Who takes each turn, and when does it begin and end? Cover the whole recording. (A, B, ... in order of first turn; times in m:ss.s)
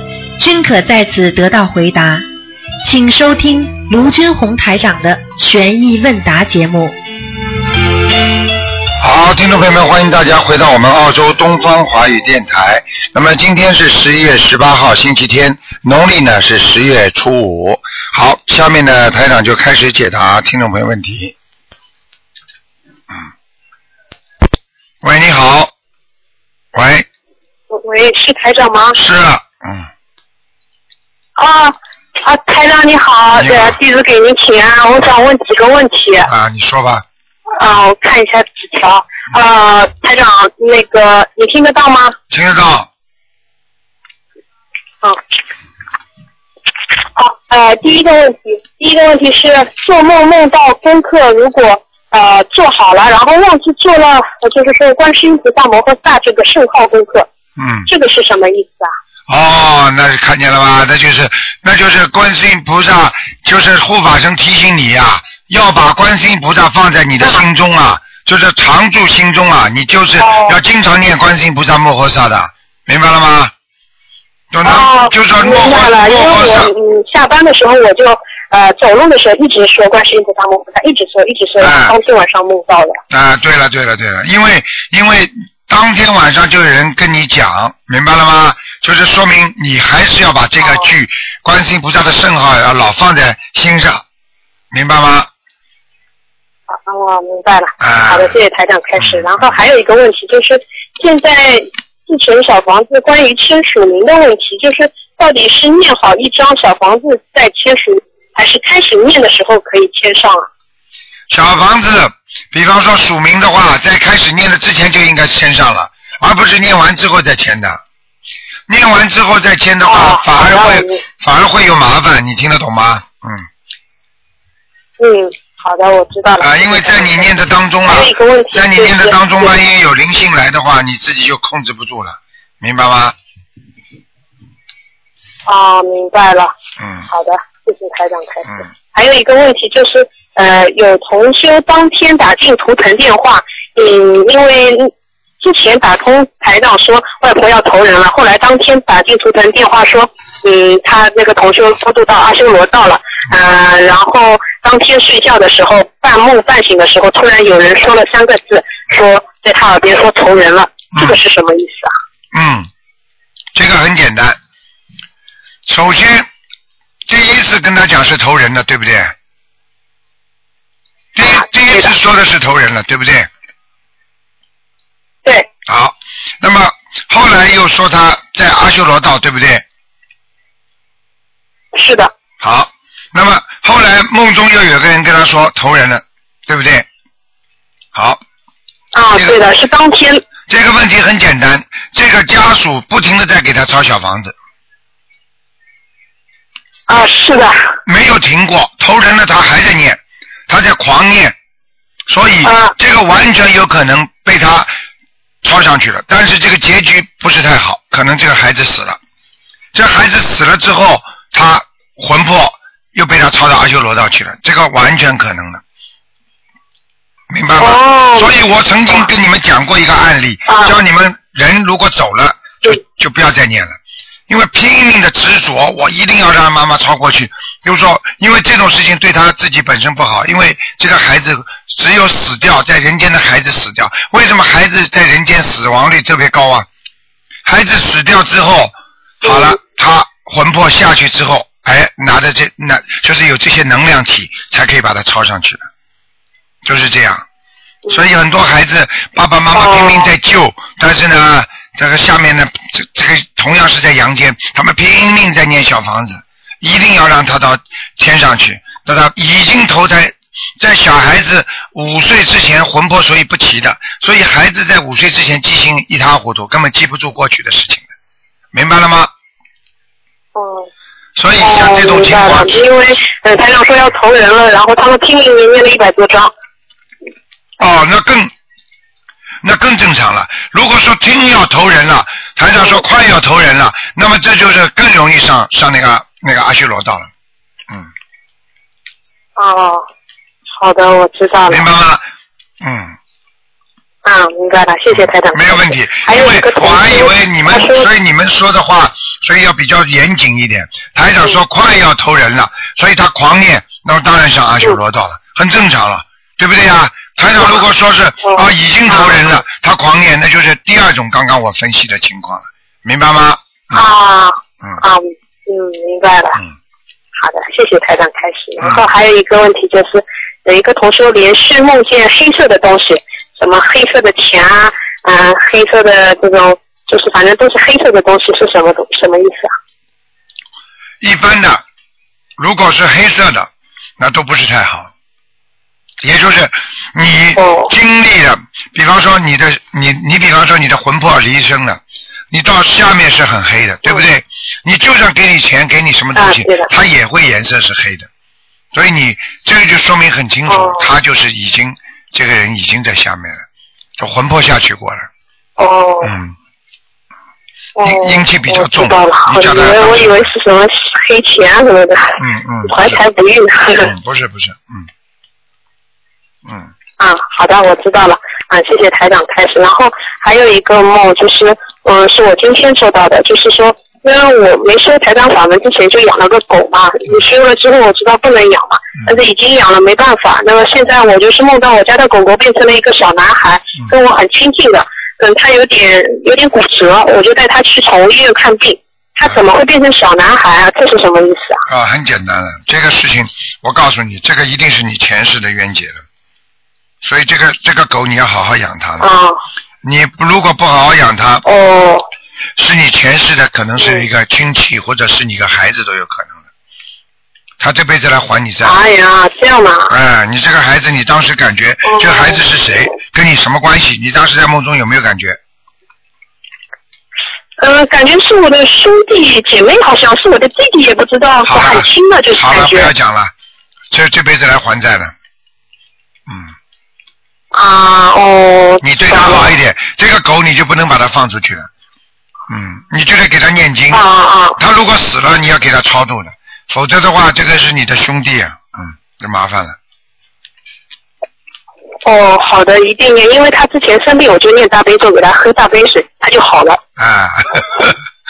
0:00.4-0:02.2 A
0:02.8-0:07.0 A
0:09.0-0:21.3 B
0:25.0-0:25.7 B
0:26.7-0:27.1 B
0:27.7-0:29.0 C
0:29.0-0:29.9 B
0:31.4-0:36.3 C
0:33.4-0:33.8 B
0:36.2-0:37.0 B
0:37.6-0:42.2 C
0:42.3-0:42.9 B
0:47.2-0:57.3 C
0:57.6-0:57.9 B
0:57.9-0:58.9 C
0:59.3-1:13.5 B
1:10.2-1:10.6 C
1:14.5-1:16.7 B
1:14.6-1:23.0 C
1:21.6-1:22.0 B
1:23.1-1:34.0 B
1:30.6-1:30.9 C
1:34.7-1:35.3 B
1:36.7-1:50.5 C
1:37.8-1:38.4 B
1:39.0-1:39.5 B
1:51.3-1:57.8 B
1:58.7-2:03.4 B
1:59.9-2:01.0 C
2:05.0-2:07.3 C
2:06.4-2:13.2 B
2:07.8-2:09.6 C
2:15.5-2:16.5 C
2:16.8-2:17.1 B
2:17.1-2:41.9 C
2:40.9-2:41.2 B
2:42.3-2:42.7 B
2:43.5-2:44.4 B
2:45.7-2:46.3 B
2:47.1-2:49.1 B
2:51.2-2:53.3 B
2:51.2-2:51.9 C
2:55.7-2:59.6 B
3:01.8-3:02.1 C
3:02.4-3:06.9 B
3:07.9-3:08.2 B
3:08.9-3:10.2 C
3:09.1-3:09.4 B
3:10.5-3:14.4 B
3:16.9-3:17.8 C
3:17.9-3:21.4 B
3:22.1-3:24.7 B
3:22.4-3:22.7 C
3:25.4-3:29.0 B
3:29.7-3:35.6 B
3:37.3-3:43.8 B
3:37.6-3:38.3 C
3:40.5-3:40.7 C
3:44.3-3:56.7 B
3:57.4-4:05.7 B
3:59.2-3:59.5 C
4:06.6-4:07.2 B
4:07.9-4:27.9 B
4:09.5-4:10.1 C
4:28.5-4:29.1 B
4:30.4-4:30.7 C
4:31.2-4:32.7 B
4:31.4-4:36.3 C
4:37.6-4:38.3 B
4:39.4-4:47.1 B
4:42.6-4:42.8 C
4:49.4-4:49.8 C
4:50.6-4:51.7 C
4:51.5-4:52.0 B
4:52.6-4:53.0 B
4:54.0-4:57.9 C
4:54.9-5:13.8 B
5:08.2-5:09.2 C
5:13.7-5:16.4 C
5:17.2-5:29.5 C
5:31.0-5:31.6 B
5:32.4-5:34.9 B
5:36.0-5:48.1 B
5:37.4-5:37.7 C
5:46.2-5:46.7 C
5:48.7-5:53.4 B
5:50.5-5:50.9 C
5:54.0-5:55.1 B
5:55.6-5:56.1 C
5:56.0-5:56.4 B
5:57.8-6:03.9 C
5:57.8-6:00.3 B
6:02.2-6:03.0 B
6:03.8-6:04.9 B
6:06.4-6:06.7 B
6:07.0-6:31.6 C
6:31.7-6:36.0 B
6:37.0-6:39.1 B
6:39.0-6:39.4 C
6:39.8-6:41.4 B
6:41.4-6:42.1 C
6:42.6-6:46.4 B
6:43.8-6:44.1 C
6:47.6-6:48.8 B
6:48.6-6:49.9 C
6:49.9-6:55.4 B
6:51.9-6:52.4 C
6:57.6-7:02.9 C
7:01.4-7:03.3 B
7:03.9-7:05.1 B
7:06.3-7:06.5 B
7:07.5-7:09.5 C
7:08.8-7:11.7 B
7:12.5-7:14.0 B
7:13.9-7:14.6 C
7:14.6-7:19.8 B
7:22.0-7:26.8 C
7:27.0-7:28.0 B